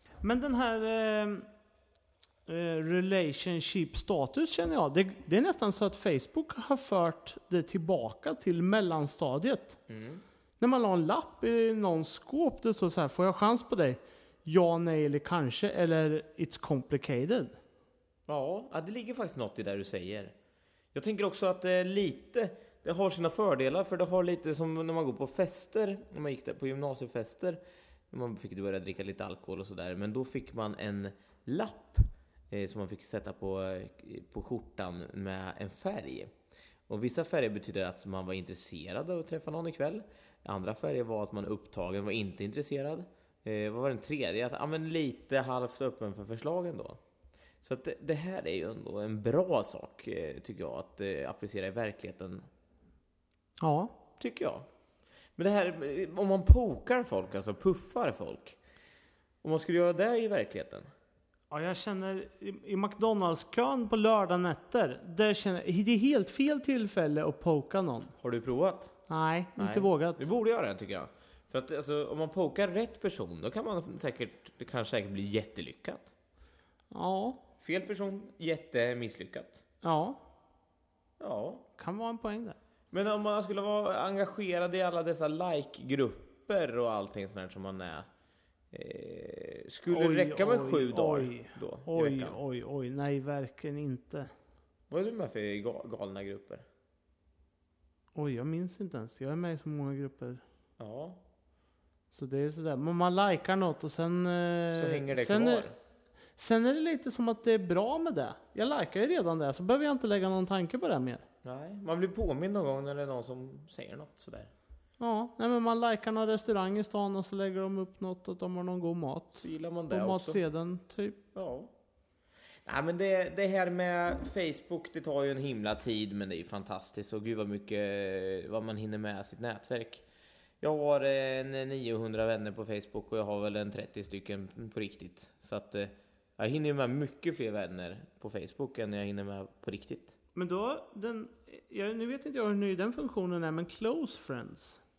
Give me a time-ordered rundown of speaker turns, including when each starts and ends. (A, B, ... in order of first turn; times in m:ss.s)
0:00.2-0:01.5 A
0:02.5-0:09.8 A
0:09.9-0:10.2 B
0:10.6-0:17.6 A
0:18.3-0:20.3 B
0:20.9-0:27.6 B
0:28.1-0:36.3 B
0:36.9-0:47.0 B
0:47.6-0:52.5 B
0:53.6-0:53.9 A
0:54.2-0:54.7 B
0:55.4-0:58.6 B
0:59.4-1:00.9 B
1:01.5-1:08.1 A
1:08.2-1:08.9 B
1:09.1-1:10.2 A
1:09.6-1:16.1 B
1:16.9-1:17.4 A
1:17.6-1:19.6 B
1:19.8-1:20.2 A
1:21.2-1:21.7 B
1:21.8-1:22.6 A
1:22.9-1:28.1 B
1:28.7-1:32.4 B
1:29.9-1:34.3 A
1:34.9-1:36.7 B
1:38.2-1:40.4 A
1:40.8-1:41.2 B
1:42.1-1:45.7 A
1:44.7-1:45.8 B
1:46.4-1:51.2 A
1:51.4-1:54.5 B
1:55.0-2:01.2 A
1:59.4-2:00.4 B
2:01.4-2:01.7 B
2:02.7-2:10.0 B
2:10.6-2:20.2 B
2:20.4-2:24.8 A